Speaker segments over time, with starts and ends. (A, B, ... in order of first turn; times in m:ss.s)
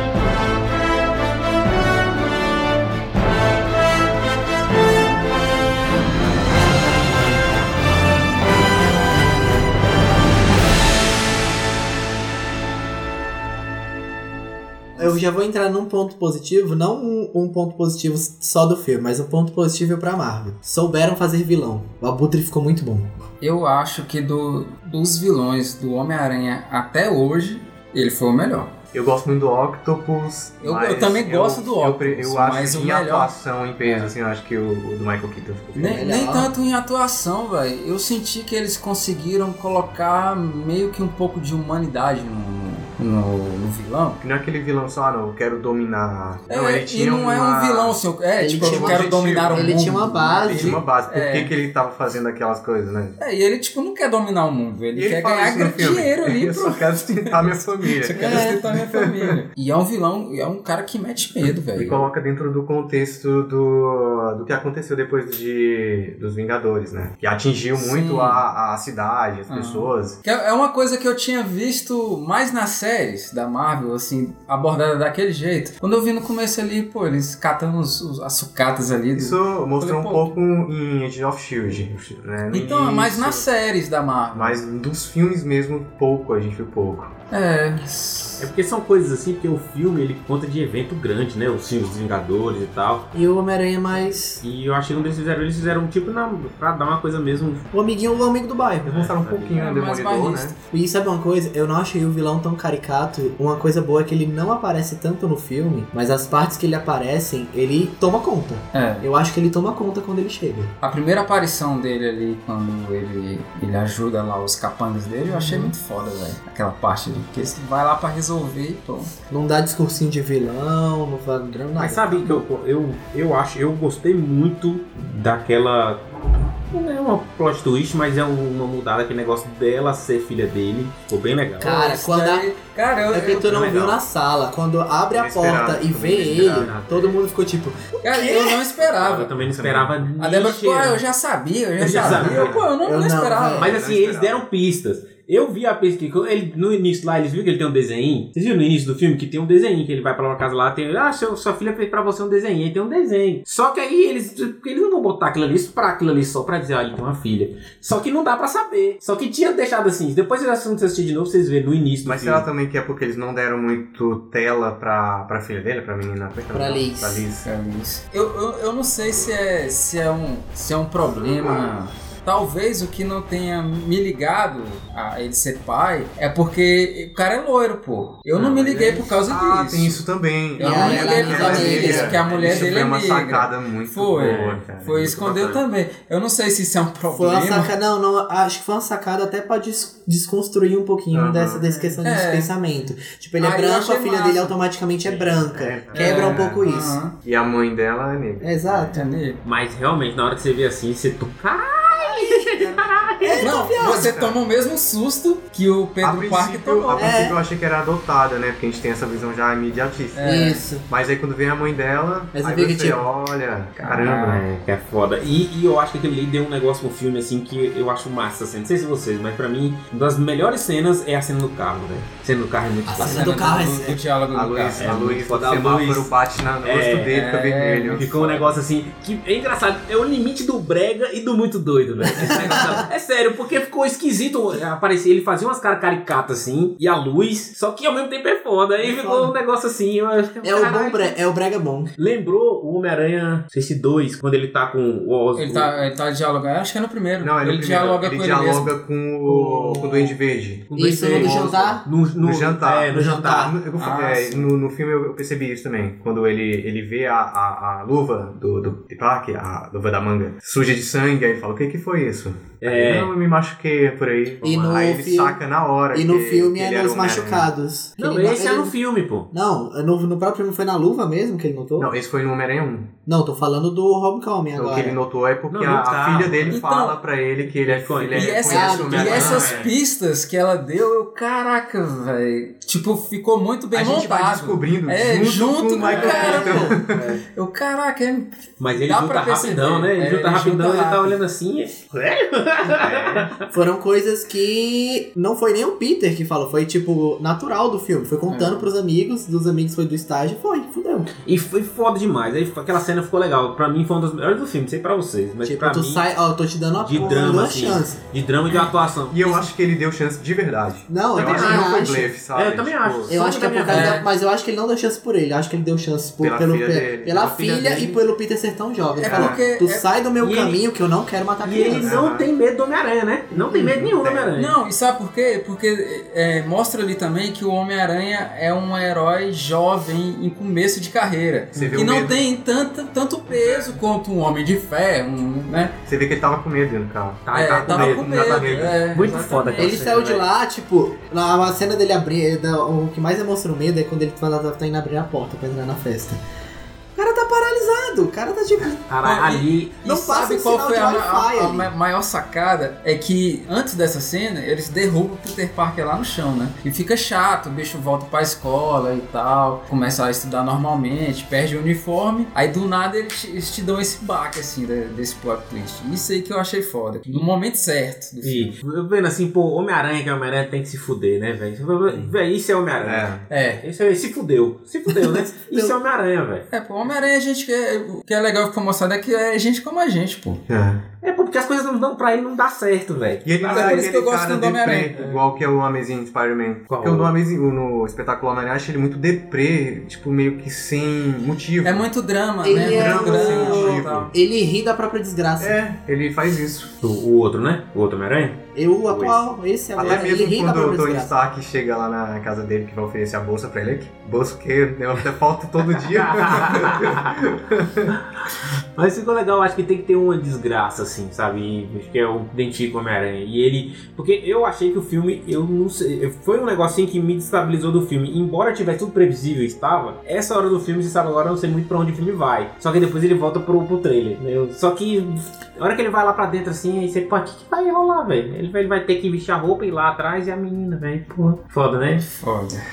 0:14.9-0:15.2 A
0:15.0-0:23.2 B
0:23.4-0:28.7 A
0:28.9-0:36.0 C
0:30.6-0:33.3 A
0:33.8-0:34.1 A
0:35.8-0:44.2 A
0:35.8-0:36.5 B
0:44.2-0:48.0 C
0:46.5-0:51.5 A
0:48.4-0:50.8 B
0:48.6-0:53.2 C
0:53.2-1:02.0 A
0:54.9-0:59.4 C
0:58.1-0:58.6 B
1:01.8-1:10.2 C
1:07.8-1:08.4 A
1:09.5-1:20.3 A
1:19.1-1:23.5 C
1:22.5-1:24.6 A
1:24.3-1:27.1 C
1:27.3-1:28.5 A
1:28.4-1:33.1 D
1:33.1-1:34.4 B
1:34.4-1:37.7 D
1:37.7-1:39.1 B
1:38.8-1:39.6 D
1:38.8-1:40.6 C
1:39.5-1:40.6 A
1:40.7-1:50.7 B
1:48.7-1:49.1 A
1:50.8-1:59.1 A
1:59.3-2:02.3 B
2:01.8-2:06.0 D
2:06.7-2:11.7 D
2:11.6-2:12.5 B
2:11.6-2:13.5 A
2:13.1-2:18.6 B
2:13.3-2:14.0 D
2:15.1-2:16.8 C
2:16.5-2:17.2 D
2:18.0-2:19.3 A
2:18.8-2:21.0 D
2:19.3-2:20.1 C
2:20.2-2:23.7 A
2:21.8-2:22.5 D
2:21.9-2:22.6 C
2:22.4-2:23.7 B
2:23.6-2:42.4 D
2:23.6-2:24.4 C
2:42.0-2:47.5 C
2:46.5-2:47.2 B
2:47.4-3:00.0 A
2:58.4-3:05.2 C
2:58.4-2:58.9 D
3:00.6-3:07.7 A
3:00.6-3:02.2 B
3:01.3-3:02.8 D
3:04.2-3:05.6 D
3:07.1-3:17.0 B
3:11.1-3:12.0 C
3:12.0-3:12.5 A
3:13.4-3:14.5 A
3:15.1-3:15.4 D
3:15.4-3:19.0 C
3:16.0-3:17.1 A
3:18.4-3:19.0 B
3:18.9-3:19.4 A
3:19.4-3:23.6 D
3:22.0-3:24.1 B
3:23.4-3:27.2 A
3:23.8-3:24.4 C
3:26.0-3:34.4 C
3:26.9-3:27.4 B
3:30.1-3:30.7 A
3:30.2-3:30.8 B
3:32.3-3:33.0 B
3:33.8-3:34.4 A
3:33.9-3:43.4 D
3:42.9-3:44.0 B
3:43.0-3:45.0 A
3:44.3-3:48.6 C
3:44.8-3:47.2 D
3:47.1-3:48.1 A
3:48.0-4:01.2 D
3:52.0-3:52.8 B
3:58.8-3:59.3 B
4:00.4-4:01.9 B
4:02.0-4:05.7 D
4:05.4-4:08.7 A
4:07.2-4:27.5 C
4:09.3-4:10.2 B
4:10.7-4:13.5 D
4:10.8-4:11.8 B
4:12.9-4:13.6 B
4:13.8-4:14.5 A
4:22.6-4:23.1 D
4:24.4-4:24.8 D
4:24.4-4:25.4 B
4:25.9-4:28.7 B
4:28.0-4:29.3 D
4:29.3-4:31.9 B
4:31.8-4:32.9 C
4:33.0-4:35.0 B
4:34.5-4:39.7 C
4:35.5-4:36.6 D
4:36.5-4:37.0 A
4:37.5-4:39.7 D
4:38.1-4:46.7 A
4:38.5-4:39.5 B
4:43.7-4:47.2 C
4:45.8-4:46.8 B
4:46.2-4:47.2 D
4:47.3-4:51.2 A
4:48.6-4:53.5 D
4:53.4-5:01.1 B
4:58.3-4:58.7 A
5:01.2-5:06.0 D
5:05.4-5:08.0 B
5:06.7-5:09.5 D
5:09.1-5:13.2 C
5:10.9-5:12.1 B
5:11.1-5:14.0 D
5:13.1-5:22.0 B
5:13.7-5:14.1 A
5:16.2-5:18.0 C
5:19.0-5:19.8 A
5:19.0-5:19.4 C
5:20.2-5:20.6 D
5:21.4-5:24.6 D
5:21.6-5:22.3 C
5:23.5-5:24.3 C
5:24.3-5:35.7 A
5:31.5-5:31.9 D
5:31.5-5:32.2 C
5:33.4-5:33.7 C
5:35.9-5:38.7 C
5:37.2-5:40.2 D
5:37.3-5:39.8 A
5:39.6-5:46.2 B
5:47.0-5:48.8 B
5:48.9-5:49.7 D
5:49.0-6:08.5 A
5:49.8-5:51.7 B
6:08.2-6:16.5 D
6:12.8-6:13.2 C
6:13.3-6:13.6 A
6:15.4-6:15.7 B
6:16.5-6:20.4 A
6:20.5-6:20.8 C
6:21.0-6:23.9 D
6:23.2-6:31.9 C
6:23.4-6:25.2 A
6:26.7-6:27.1 D
6:31.6-6:34.1 A
6:32.4-6:35.6 B
6:32.5-6:34.1 C
6:35.4-6:36.7 C
6:36.8-6:39.2 D
6:38.5-6:41.1 B
6:39.8-6:48.0 C
6:45.8-6:47.2 D
6:47.9-7:12.1 D
7:12.2-7:12.6 A